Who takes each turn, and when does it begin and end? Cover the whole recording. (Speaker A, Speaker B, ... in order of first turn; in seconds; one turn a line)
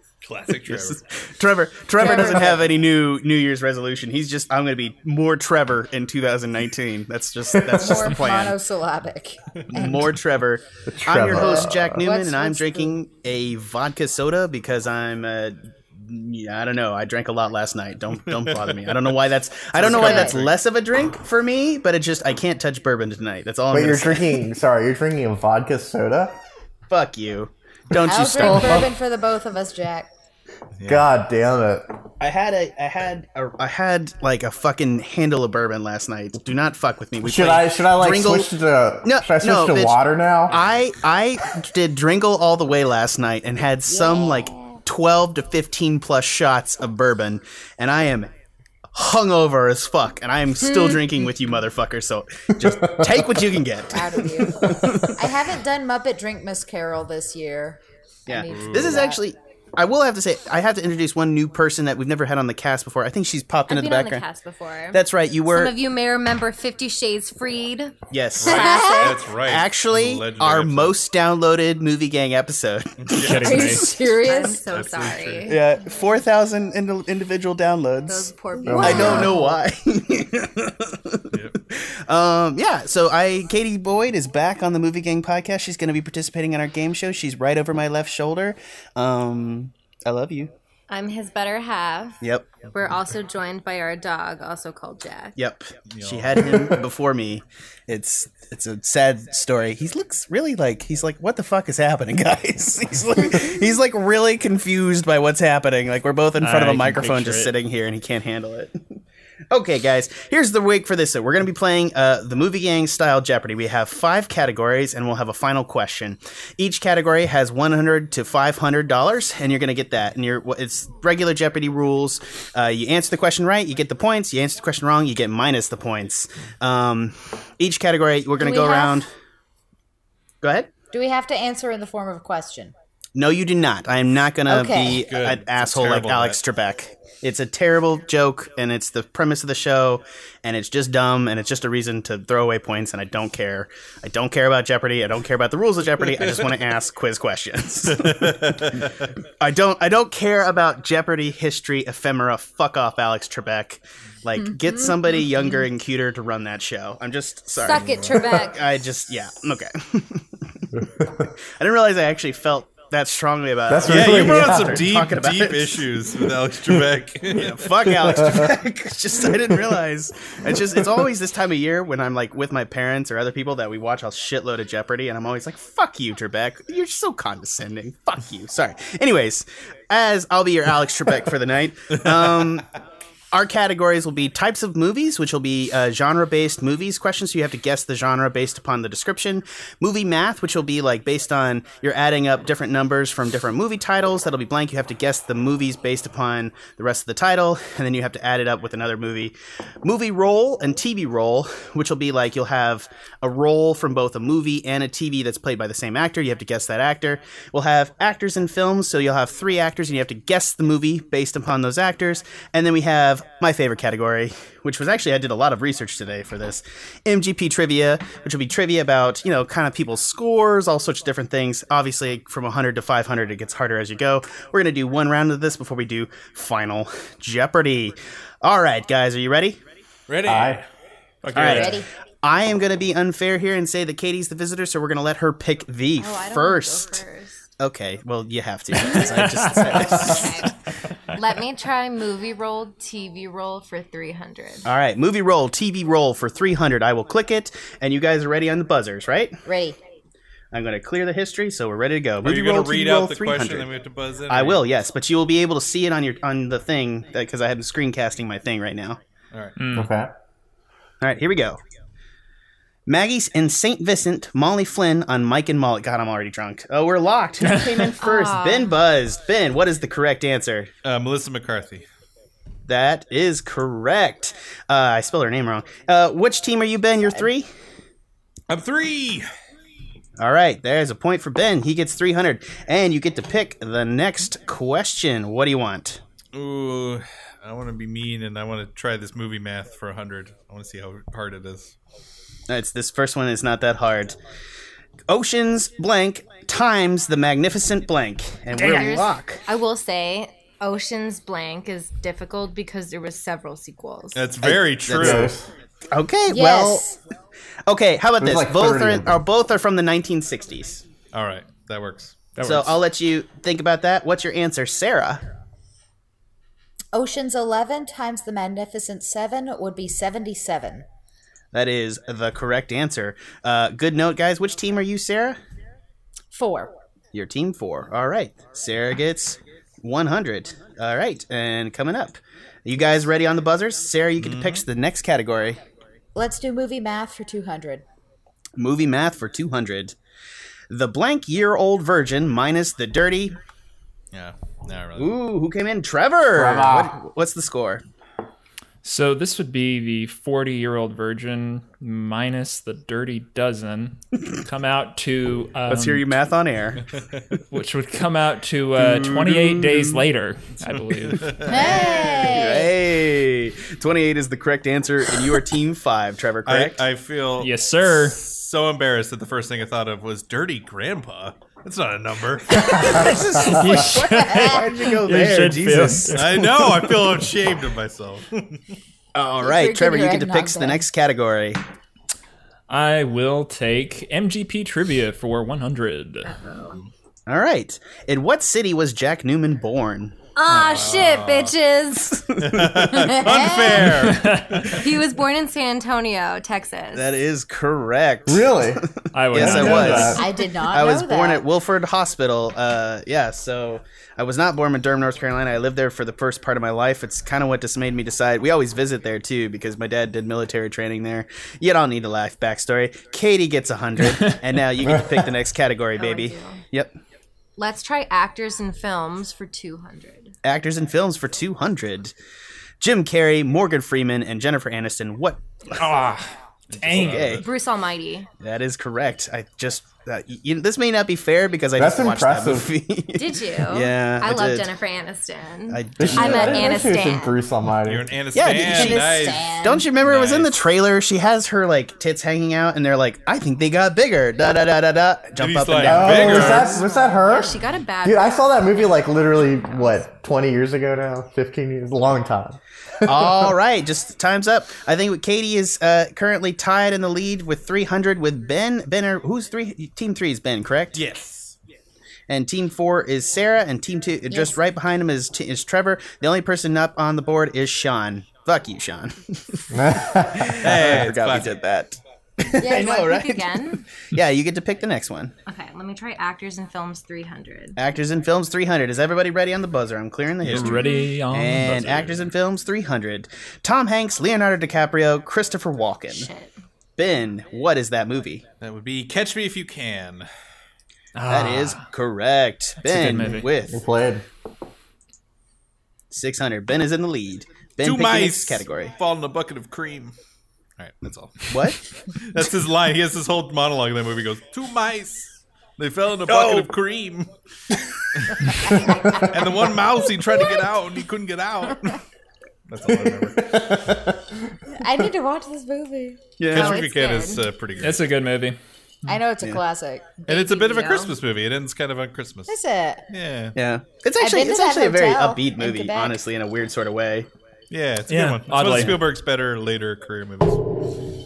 Speaker A: 0.2-1.0
Speaker B: 0.6-8.6
Speaker C: 2.0-2.7
Speaker D: 7.5-8.0
Speaker C: 7.7-10.1
Speaker B: 9.7-24.4
Speaker D: 10.8-12.0
Speaker C: 11.3-12.9
Speaker A: 18.2-19.2
Speaker A: 19.7-20.5
Speaker C: 19.9-20.4
Speaker D: 23.7-26.4
Speaker B: 26.9-28.9
Speaker C: 28.0-30.1
Speaker D: 28.4-28.9
Speaker A: 30.8-31.1
Speaker D: 30.9-31.9
Speaker B: 32.2-38.5
Speaker D: 37.2-40.6
Speaker B: 39.0-40.0
Speaker B: 40.5-48.3
Speaker C: 43.9-44.8
Speaker B: 48.9-55.2
Speaker C: 50.6-51.0
Speaker D: 52.6-53.3
Speaker C: 53.9-59.2
Speaker B: 58.3-64.2
Speaker A: 58.5-59.0
Speaker E: 63.7-69.2
Speaker B: 64.9-65.7
Speaker B: 68.1-68.8
Speaker A: 68.4-71.0
Speaker C: 68.5-69.2
Speaker B: 69.4-74.0
Speaker A: 73.0-73.5
Speaker F: 73.1-73.9
Speaker C: 73.4-74.6
Speaker E: 73.6-75.6
Speaker A: 74.7-75.5
Speaker B: 75.5-90.5
Speaker E: 78.0-79.4
Speaker C: 78.6-79.4
Speaker D: 78.6-79.2
Speaker A: 81.3-81.6
Speaker E: 90.9-92.2
Speaker B: 92.2-92.5
Speaker E: 92.7-95.3
Speaker B: 95.3-109.0
Speaker A: 95.9-96.7
Speaker F: 106.4-107.5
Speaker B: 109.5-129.1
Speaker C: 128.4-129.0
Speaker B: 130.4-130.7
Speaker C: 130.9-132.7
Speaker B: 133.2-148.9
Speaker C: 134.5-135.0
Speaker A: 134.9-136.4
Speaker A: 147.9-149.1
Speaker B: 149.4-160.7
Speaker E: 157.6-158.6
Speaker D: 160.8-161.3
Speaker B: 161.4-165.8
Speaker D: 163.7-164.9
Speaker A: 163.9-167.7
Speaker B: 167.3-182.7
Speaker D: 167.9-168.6
Speaker D: 169.2-169.7
Speaker B: 183.3-229.6
Speaker A: 230.1-230.6
Speaker D: 230.3-230.6
Speaker F: 231.2-231.8
Speaker B: 231.3-237.0
Speaker A: 231.4-231.7
Speaker C: 231.4-231.8
Speaker E: 236.0-237.4
Speaker B: 237.6-240.5
Speaker F: 238.9-240.1
Speaker E: 239.8-240.5
Speaker E: 241.1-244.7
Speaker B: 244.6-249.4
Speaker C: 249.4-249.8
Speaker B: 250.5-253.7
Speaker A: 252.2-254.6
Speaker B: 254.3-259.0
Speaker F: 259.6-259.9
Speaker D: 259.7-260.1
Speaker B: 261.0-261.6
Speaker B: 262.9-270.7
Speaker F: 267.4-267.9
Speaker E: 268.0-268.8
Speaker A: 270.8-271.8
Speaker B: 272.7-277.5
Speaker A: 278.5-279.3
Speaker B: 280.2-286.0
Speaker A: 286.3-291.7
Speaker B: 292.5-294.2
Speaker B: 295.1-299.4
Speaker F: 298.6-299.0
Speaker E: 298.6-304.2
Speaker A: 304.1-305.3
Speaker B: 304.4-305.3
Speaker D: 305.0-305.5
Speaker B: 305.9-307.0
Speaker C: 306.3-306.9
Speaker B: 307.6-310.8
Speaker D: 308.2-309.2
Speaker A: 311.1-312.4
Speaker F: 312.4-312.7
Speaker B: 312.4-315.2
Speaker C: 316.9-320.8
Speaker B: 321.5-325.4
Speaker C: 326.3-326.7
Speaker B: 327.1-335.6
Speaker A: 334.2-334.6
Speaker C: 336.1-337.8
Speaker B: 338.6-339.9
Speaker B: 340.7-343.4
Speaker A: 344.1-345.2
Speaker B: 344.9-347.8
Speaker D: 346.3-346.9
Speaker F: 348.8-356.1
Speaker B: 355.7-356.8
Speaker A: 356.9-357.4
Speaker F: 357.5-361.5
Speaker B: 358.8-359.7
Speaker A: 360.6-362.3
Speaker C: 361.5-362.7
Speaker B: 361.7-366.8
Speaker A: 366.4-373.2
Speaker F: 367.4-368.2
Speaker B: 372.5-377.2
Speaker F: 372.6-376.4
Speaker A: 376.1-378.7
Speaker B: 379.1-381.6
Speaker C: 379.4-380.8
Speaker F: 382.7-386.3
Speaker E: 386.2-386.8
Speaker B: 387.3-390.2
Speaker E: 390.4-392.2
Speaker A: 390.5-391.5
Speaker B: 392.0-393.1
Speaker A: 392.4-394.8
Speaker C: 393.1-394.1
Speaker F: 393.9-394.7
Speaker E: 394.6-397.1
Speaker B: 396.9-416.9
Speaker D: 398.3-400.3
Speaker F: 399.1-400.3
Speaker C: 400.0-401.4
Speaker D: 414.8-415.3
Speaker E: 416.0-416.6
Speaker E: 417.6-420.3
Speaker B: 420.4-422.1
Speaker B: 422.8-425.9
Speaker F: 425.7-427.3
Speaker A: 426.7-427.5
Speaker B: 426.9-427.4
Speaker E: 427.4-428.3
Speaker B: 428.4-434.7
Speaker D: 431.8-432.7
Speaker E: 433.1-437.4
Speaker B: 435.7-436.8
Speaker D: 436.0-438.1
Speaker C: 436.7-437.0
Speaker A: 437.8-440.6
Speaker B: 438.3-446.6
Speaker C: 438.5-439.9
Speaker A: 445.4-446.8
Speaker D: 445.8-453.5
Speaker E: 446.6-450.0
Speaker C: 446.7-447.5
Speaker B: 453.0-461.0
Speaker A: 460.9-461.6
Speaker B: 462.3-469.8
Speaker C: 464.3-464.6
Speaker D: 469.7-470.7
Speaker B: 470.3-473.6
Speaker A: 470.6-471.6
Speaker C: 472.6-473.0
Speaker E: 472.6-473.9
Speaker B: 474.1-475.3
Speaker E: 475.5-477.8
Speaker B: 477.8-486.3
Speaker A: 480.4-480.8
Speaker F: 480.5-482.0
Speaker E: 480.6-481.1
Speaker A: 481.8-482.3
Speaker E: 486.1-486.5
Speaker B: 487.0-488.4
Speaker A: 488.6-490.3
Speaker F: 491.1-491.9
Speaker B: 491.3-493.8
Speaker F: 492.8-493.5
Speaker D: 493.7-494.2
Speaker B: 496.1-498.9
Speaker A: 497.8-500.1
Speaker A: 500.8-512.0
Speaker B: 501.5-501.8
Speaker B: 506.3-506.7
Speaker A: 512.7-513.5
Speaker D: 512.9-515.0
Speaker C: 514.7-516.2
Speaker B: 516.4-516.8
Speaker A: 516.5-518.1
Speaker E: 516.5-517.5
Speaker F: 517.8-519.1
Speaker C: 519.1-521.1
Speaker A: 520.3-522.5
Speaker E: 520.8-521.1
Speaker C: 522.5-523.0
Speaker A: 523.1-523.5
Speaker B: 523.5-527.3
Speaker C: 524.2-526.2
Speaker A: 527.7-530.6
Speaker F: 528.1-529.1